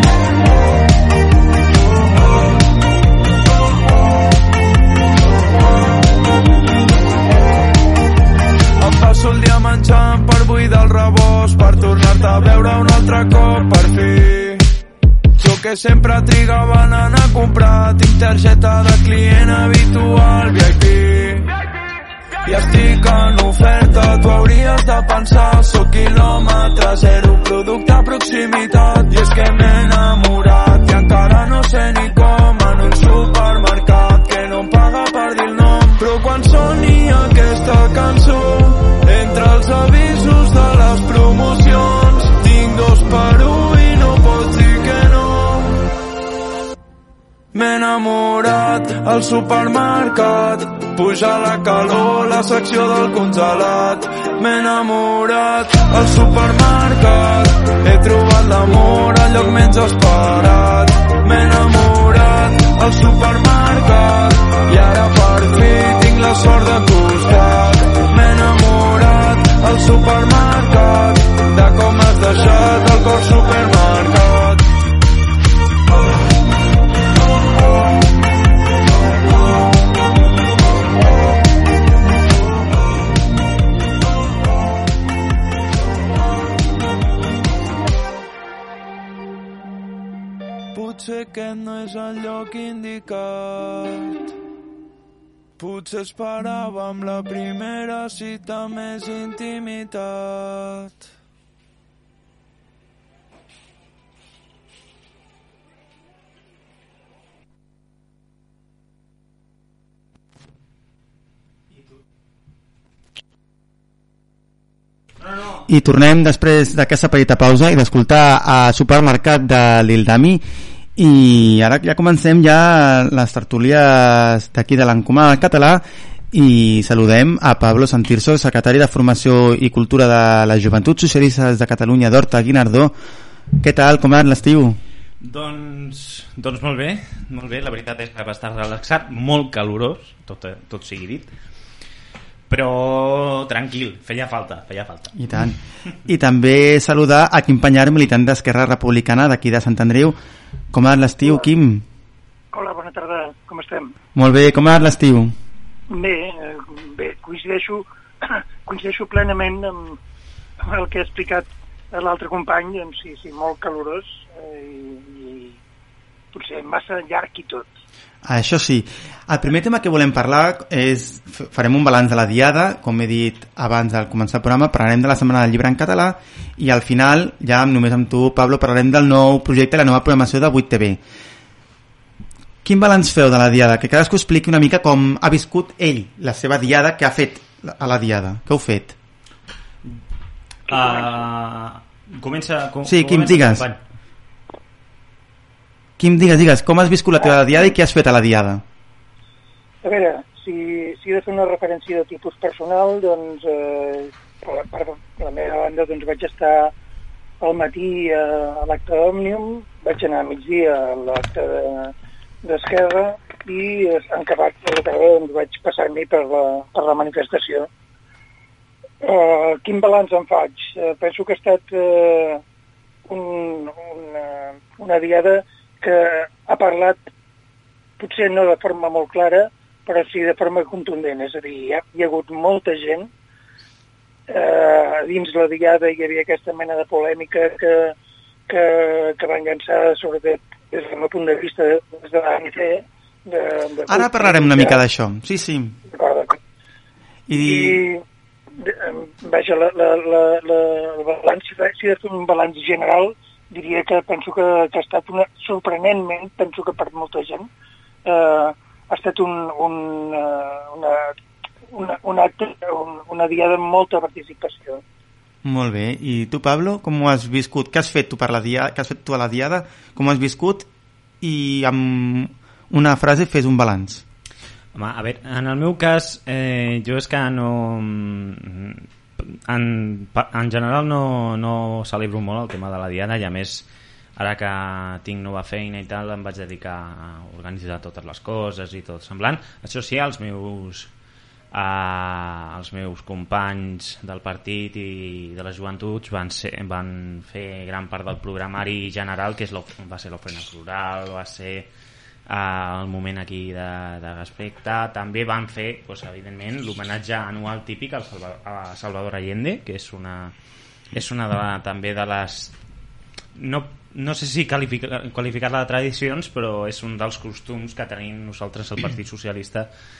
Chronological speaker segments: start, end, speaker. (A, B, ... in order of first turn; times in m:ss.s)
0:08.8-0:14.7 A
0:15.4-0:21.5 A
0:22.4-0:45.8 A
0:47.5-1:14.7 A
1:30.7-1:34.3 A
1:35.6-1:41.1 A
1:55.2-1:55.6 B
1:55.7-2:00.4 C
2:01.0-2:12.9 C
2:13.6-2:14.8 C
2:15.2-2:21.3 B
2:22.5-2:25.2 B
2:25.2-2:30.2 C
2:30.7-2:31.8 C
2:32.5-2:33.9 D
2:34.2-2:35.4 C
2:35.9-2:40.0 D
2:40.6-2:45.6 D
2:46.3-2:47.7 D
2:48.2-3:01.0 C
3:02.6-3:09.0 C
3:10.7-3:13.8 B
3:12.8-3:13.7 C
3:16.0-3:18.6 C
3:19.8-3:26.7 D
3:27.4-3:31.9 D
3:32.4-3:37.7 D
3:39.0-3:42.4 D
3:43.1-3:47.0 D
3:48.0-3:53.1 D
3:54.3-3:57.9 D
3:58.5-4:04.8 D
4:03.9-4:05.8 C
4:05.9-4:06.4 D
4:07.3-4:07.8 C
4:07.4-4:08.0 D
4:08.6-4:17.5 D
4:18.1-4:21.1 D
4:21.7-4:24.8 D
4:25.4-4:30.7 C
4:31.2-4:34.0 C
4:34.8-4:43.7 B
4:44.2-4:50.9 B
4:51.5-5:01.7 B
5:02.3-5:10.3 B
5:10.9-5:12.6 B
5:13.4-5:19.7 B